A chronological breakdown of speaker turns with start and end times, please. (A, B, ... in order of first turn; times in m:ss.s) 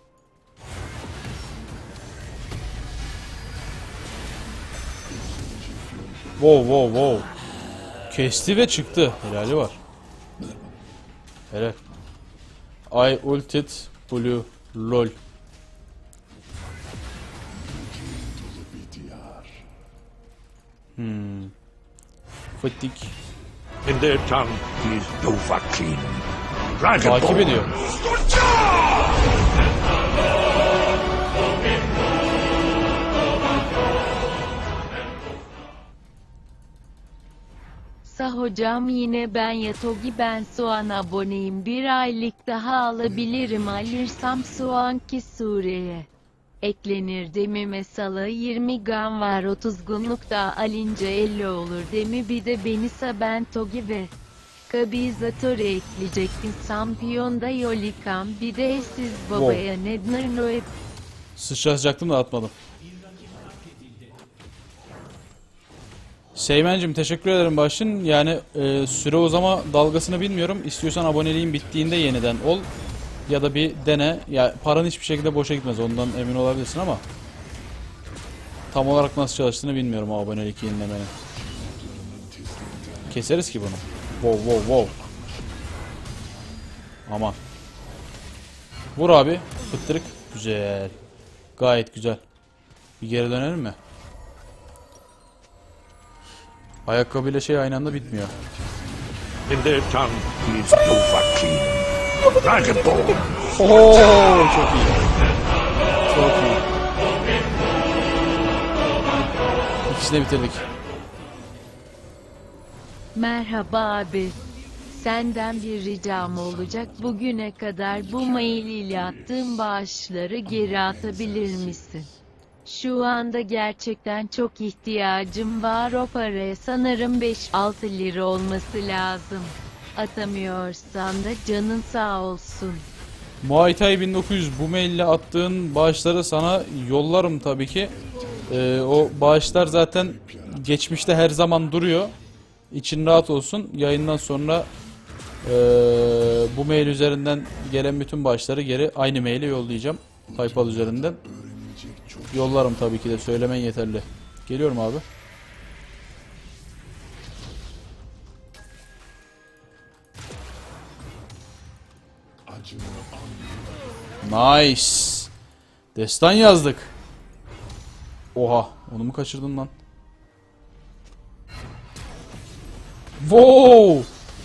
0:05.1-0:06.8 A
0:06.4-0:07.3 B
0:08.1-0:09.8 B
0:11.5-0:11.8 B
0:12.9-0:15.1 B
0:17.5-0:19.6 A
0:21.0-0:21.5 B
0:22.6-0:23.1 B
0:23.8-0:29.0 C
0:27.0-0:27.7 B
0:38.0-0:46.1 D
0:43.1-0:44.7 A
0:46.6-0:54.1 D
0:54.7-1:00.7 D
0:59.3-0:59.6 B
1:01.4-1:02.5 B
1:06.3-1:12.7 B
1:11.2-1:12.3 A
1:13.3-1:17.0 B
1:18.7-1:21.1 B
1:21.3-1:25.9 A
1:23.1-1:24.9 B
1:27.1-1:27.4 B
1:28.9-1:31.0 B
1:31.6-1:32.2 B
1:33.0-1:33.8 B
1:36.8-1:38.3 B
1:37.8-1:39.6 A
1:39.5-1:43.4 C
1:43.5-1:45.0 B
1:46.1-1:46.6 B
1:49.9-1:50.6 B
1:53.1-2:02.1 D
1:56.2-1:57.2 A
1:57.9-1:59.7 A
2:00.5-2:02.2 A
2:02.6-2:12.8 D
2:13.4-2:17.9 B
2:17.9-2:20.8 A
2:18.5-2:22.1 B
2:22.7-2:24.7 B
2:25.4-2:31.2 B
2:30.2-2:32.8 A
2:32.3-2:35.0 B
2:42.4-2:44.3 A
2:44.2-2:45.3 B
2:45.9-2:46.9 B
2:48.3-2:49.7 B
2:53.2-2:54.1 B